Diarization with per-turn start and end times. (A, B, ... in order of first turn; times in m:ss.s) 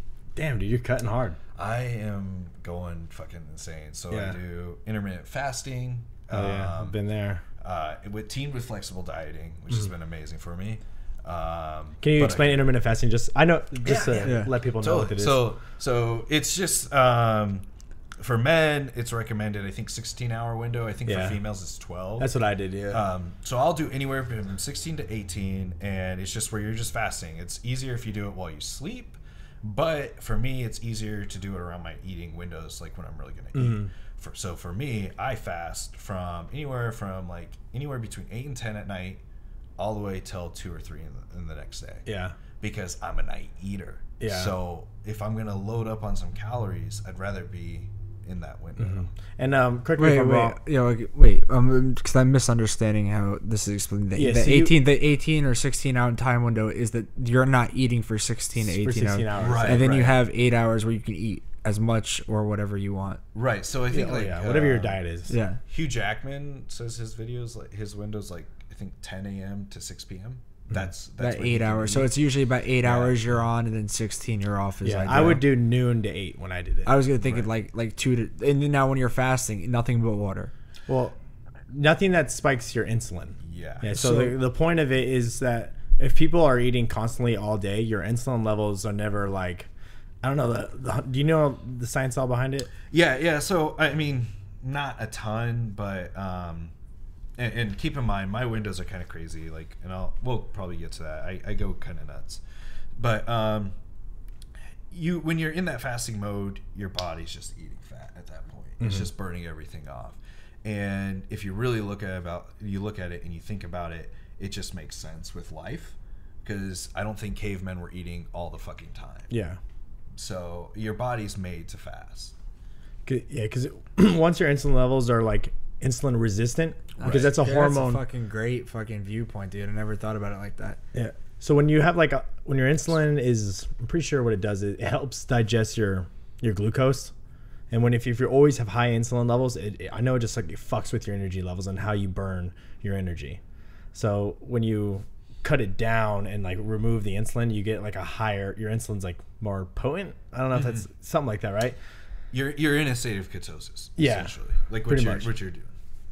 0:00.4-0:01.4 A
0:01.6-0:07.0 B
0:04.1-0:04.4 A
0:06.3-0:07.4 A
0:07.6-0:12.7 B
0:12.0-0:15.5 A
0:13.8-0:17.7 B
0:14.2-0:14.5 C
0:18.2-0:22.3 B
0:21.1-0:21.4 A
0:22.2-0:23.1 A
0:22.9-0:39.2 B
0:33.6-0:33.9 A
0:39.8-0:42.1 B
0:42.1-0:42.4 A
0:42.6-0:49.1 B
0:44.2-0:44.6 A
0:48.8-0:50.6 A
0:50.0-1:03.2 C
0:54.2-0:54.8 A
0:58.6-1:00.2 A
0:59.3-1:00.0 B
1:03.3-1:05.0 B
1:03.9-1:05.3 A
1:05.3-1:05.6 C
1:05.7-1:12.1 B
1:11.2-1:15.5 C
1:14.8-1:17.0 A
1:16.8-1:20.5 C
1:20.9-1:21.2 A
1:21.7-1:29.7 A
1:23.4-1:24.0 B
1:23.9-1:24.3 C
1:30.2-1:32.7 A
1:32.9-1:36.7 B
1:37.4-1:42.4 B
1:43.0-1:43.8 B
1:44.9-1:59.3 B
1:48.8-1:49.1 A
1:59.3-1:59.6 A
2:00.2-2:02.3 B
2:03.1-2:08.0 A
2:07.0-2:10.8 C
2:10.9-2:17.1 A
2:17.7-2:23.4 A
2:23.9-2:31.8 A
2:30.6-2:30.8 B
2:32.3-2:35.7 B
2:34.0-2:34.3 A
2:34.8-2:35.3 A